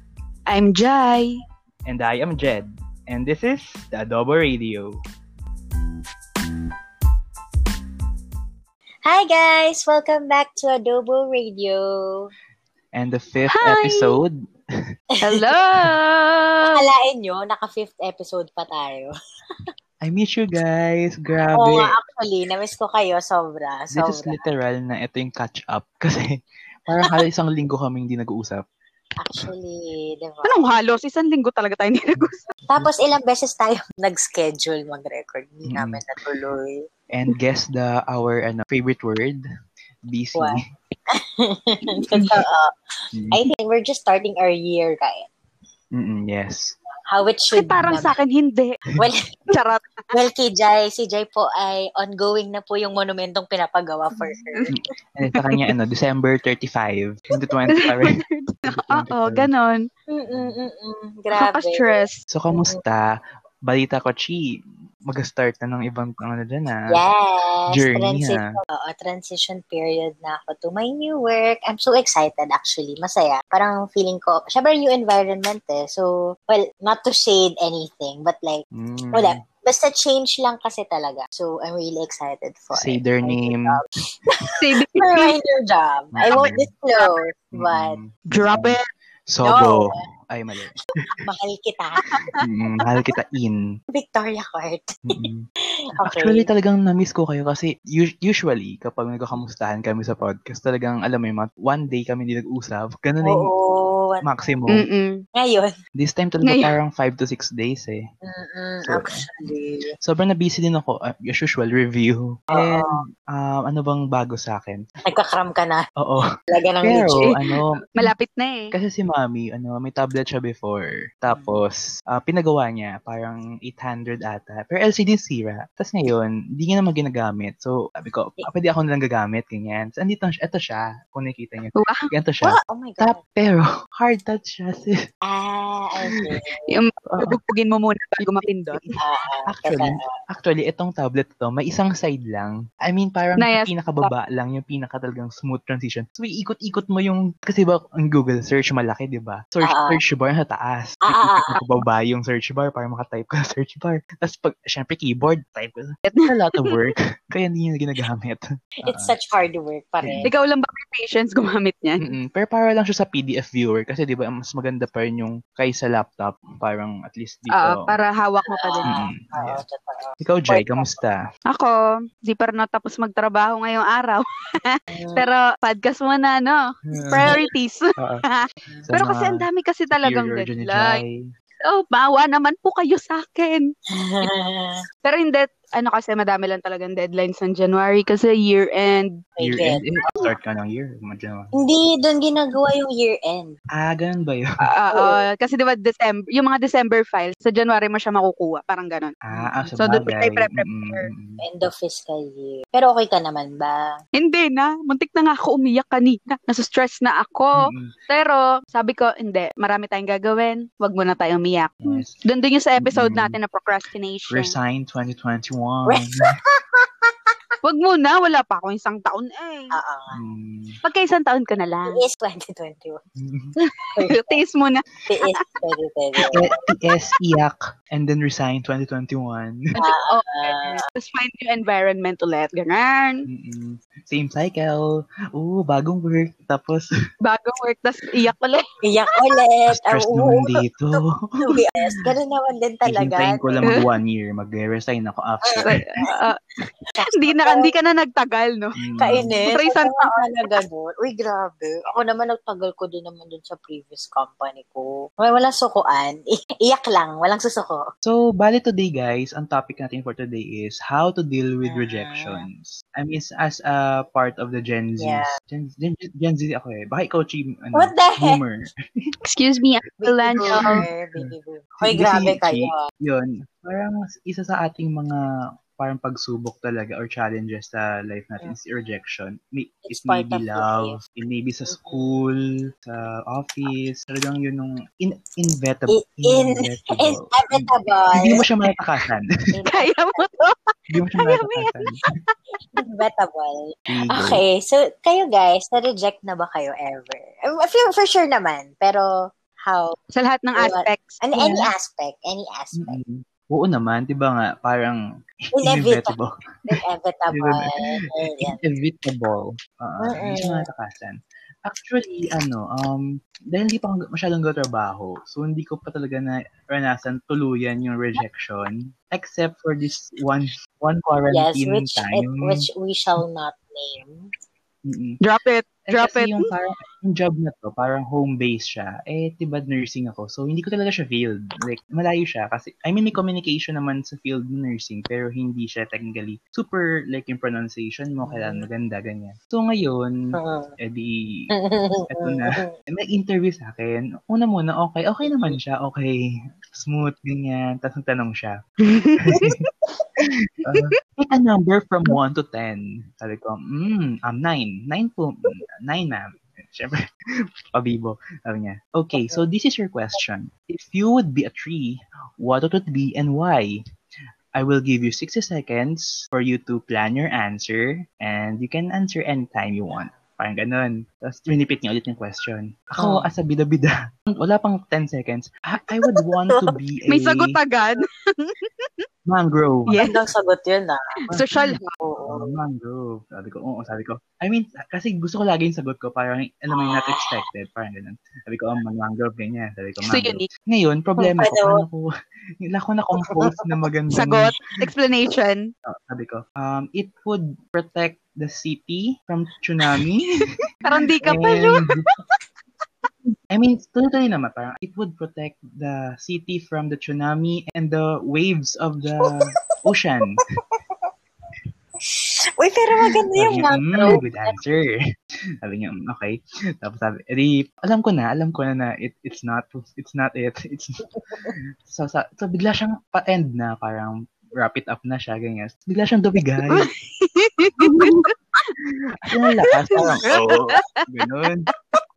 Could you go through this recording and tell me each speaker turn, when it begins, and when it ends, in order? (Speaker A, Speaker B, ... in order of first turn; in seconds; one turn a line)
Speaker A: 0.5-1.4
Speaker B: 1.9-4.9
Speaker C: 9.0-12.3
Speaker B: 12.9-14.3
Speaker A: 13.6-14.1
Speaker C: 15.2-15.5
Speaker A: 15.2-16.8
Speaker C: 16.6-19.1
Speaker B: 20.0-21.9
Speaker C: 21.5-24.4
Speaker B: 23.9-26.3
Speaker B: 26.9-28.6
Speaker C: 29.2-30.7
Speaker A: 30.4-32.4
Speaker B: 32.1-32.9
Speaker C: 32.7-36.9
Speaker B: 35.7-36.0
Speaker B: 37.1-39.4
Speaker B: 40.1-40.6
Speaker C: 40.3-40.6
Speaker C: 41.1-42.7
Speaker B: 43.1-43.4
Speaker C: 43.3-45.3
Speaker B: 45.9-46.8
Speaker C: 47.1-48.1
Speaker A: 47.5-48.8
Speaker C: 49.0-49.4
Speaker A: 49.5-49.9
Speaker C: 50.1-54.7
Speaker A: 54.2-54.7
Speaker B: 54.7-59.5
Speaker A: 57.8-59.8
Speaker C: 60.1-62.0
Speaker A: 61.3-62.2
Speaker B: 62.3-63.1
Speaker C: 62.5-62.8
Speaker B: 63.6-64.5
Speaker B: 65.1-66.9
Speaker C: 66.9-88.0
Speaker B: 67.7-68.6
Speaker B: 78.7-79.4
Speaker B: 82.7-83.7
Speaker A: 84.6-85.3
Speaker B: 86.1-86.7
Speaker A: 86.3-87.1
Speaker B: 87.5-88.8
Speaker A: 88.3-88.8
Speaker B: 89.3-91.2
Speaker C: 89.4-90.0
Speaker C: 91.2-92.0
Speaker A: 92.0-92.3
Speaker B: 92.4-93.6
Speaker C: 93.9-96.5
Speaker B: 95.1-95.5
Speaker B: 96.0-103.5
Speaker C: 103.2-104.5
Speaker B: 104.2-104.9
Speaker A: 104.7-105.2
Speaker C: 105.3-105.7
Speaker B: 106.0-108.0
Speaker A: 106.4-106.7
Speaker C: 108.2-109.9
Speaker B: 108.8-109.2
Speaker B: 110.0-114.8
Speaker C: 112.5-113.0
Speaker C: 115.0-115.8
Speaker B: 116.0-116.3
Speaker C: 116.5-117.3
Speaker B: 116.8-118.1
Speaker A: 117.9-118.7
Speaker B: 118.7-134.9
Speaker C: 121.3-121.6
Speaker A: 131.8-132.1
Speaker C: 132.4-133.2
Speaker C: 135.2-136.6
Speaker A: 136.7-138.8
Speaker B: 137.1-137.4
Speaker B: 138.2-159.1
Speaker C: 139.0-140.1
Speaker A: 143.4-144.1
Speaker C: 149.6-150.0
Speaker C: 151.0-151.6
Speaker A: 156.1-156.8
Speaker C: 158.8-160.3
Speaker A: 160.2-162.1
Speaker B: 162.0-167.9
Speaker A: 167.5-169.0
Speaker C: 168.4-171.0
Speaker B: 168.8-169.6
Speaker B: 170.2-171.2
Speaker A: 171.5-181.0
Speaker C: 174.9-175.2
Speaker B: 176.9-177.4
Speaker C: 177.1-177.4
Speaker B: 178.0-178.2
Speaker B: 178.9-181.2
Speaker A: 181.6-183.7
Speaker C: 183.9-184.8
Speaker A: 185.0-189.2
Speaker C: 189.4-190.3
Speaker B: 189.4-191.5
Speaker C: 191.5-193.5
Speaker B: 193.7-194.4
Speaker A: 194.7-201.1
Speaker C: 194.9-195.2
Speaker B: 199.3-201.4
Speaker C: 201.4-203.9
Speaker A: 204.2-214.5
Speaker B: 207.6-207.9
Speaker B: 211.8-212.1
Speaker B: 212.8-213.3
Speaker B: 214.3-216.4
Speaker C: 215.9-217.1
Speaker A: 217.6-219.7
Speaker C: 219.7-220.2
Speaker B: 220.1-220.8
Speaker A: 220.8-222.0
Speaker C: 221.9-223.0
Speaker B: 223.2-223.5
Speaker A: 223.6-224.8
Speaker C: 223.9-224.4
Speaker C: 225.1-226.5
Speaker B: 226.3-229.7
Speaker C: 229.8-230.8
Speaker A: 230.1-233.2
Speaker B: 233.2-236.9
Speaker A: 237.2-238.7
Speaker C: 238.8-243.8
Speaker B: 239.7-241.1
Speaker A: 241.5-242.0
Speaker B: 242.8-245.8
Speaker C: 245.4-246.3
Speaker A: 245.6-246.4
Speaker C: 246.9-247.7
Speaker A: 247.1-248.7
Speaker B: 248.8-249.4
Speaker C: 249.0-257.8
Speaker A: 249.4-250.3
Speaker B: 258.0-268.7
Speaker C: 261.6-262.5
Speaker C: 265.0-265.3
Speaker C: 267.7-268.4
Speaker A: 269.2-270.8
Speaker C: 270.0-272.9
Speaker B: 270.5-275.2
Speaker B: 275.8-289.3
Speaker C: 279.9-281.0
Speaker C: 281.7-282.2
Speaker C: 285.9-288.4
Speaker C: 289.5-290.3
Speaker A: 289.7-291.9
Speaker B: 290.9-292.0
Speaker C: 292.8-299.1
Speaker B: 293.9-294.4
Speaker C: 299.6-300.0
Speaker A: 300.1-301.2
Speaker C: 300.6-303.0
Speaker B: 301.3-301.7
Speaker B: 302.8-305.0
Speaker C: 305.6-306.1
Speaker B: 305.6-306.3
Speaker C: 306.7-308.6
Speaker B: 307.3-307.8
Speaker B: 308.4-322.6
Speaker C: 310.0-310.7
Speaker C: 321.3-324.3
Speaker B: 324.9-325.2
Speaker A: 325.2-326.5
Speaker B: 325.9-340.1
Speaker C: 338.2-338.7
Speaker C: 340.3-340.7
Speaker B: 340.8-341.5
Speaker C: 341.5-342.7
Speaker B: 342.1-346.2
Speaker C: 345.2-345.6
Speaker B: 346.7-348.6
Speaker A: 348.8-349.6
Speaker B: 349.2-349.7
Speaker B: 350.2-357.0
Speaker B: 357.7-363.8
Speaker C: 359.2-359.4
Speaker B: 364.6-377.6
Speaker C: 373.0-373.3
Speaker C: 376.0-376.7
Speaker A: 377.1-379.0
Speaker B: 379.2-380.0
Speaker A: 379.9-380.2
Speaker C: 379.9-381.2
Speaker A: 381.3-381.9
Speaker B: 381.3-392.0
Speaker C: 382.0-382.5
Speaker C: 386.7-387.4
Speaker A: 390.1-390.4
Speaker C: 391.2-391.8
Speaker B: 392.6-394.5
Speaker C: 393.2-393.8
Speaker A: 394.1-395.7
Speaker B: 395.9-400.4
Speaker A: 400.8-402.0
Speaker B: 401.2-402.1
Speaker B: 403.5-410.4
Speaker C: 409.2-409.5
Speaker C: 412.1-414.6
Speaker B: 413.4-414.9
Speaker B: 415.6-421.0
Speaker B: 421.5-426.9
Speaker A: 426.7-428.3
Speaker B: 427.8-428.3
Speaker B: 429.2-431.7
Speaker C: 429.9-430.9
Speaker A: 430.3-430.8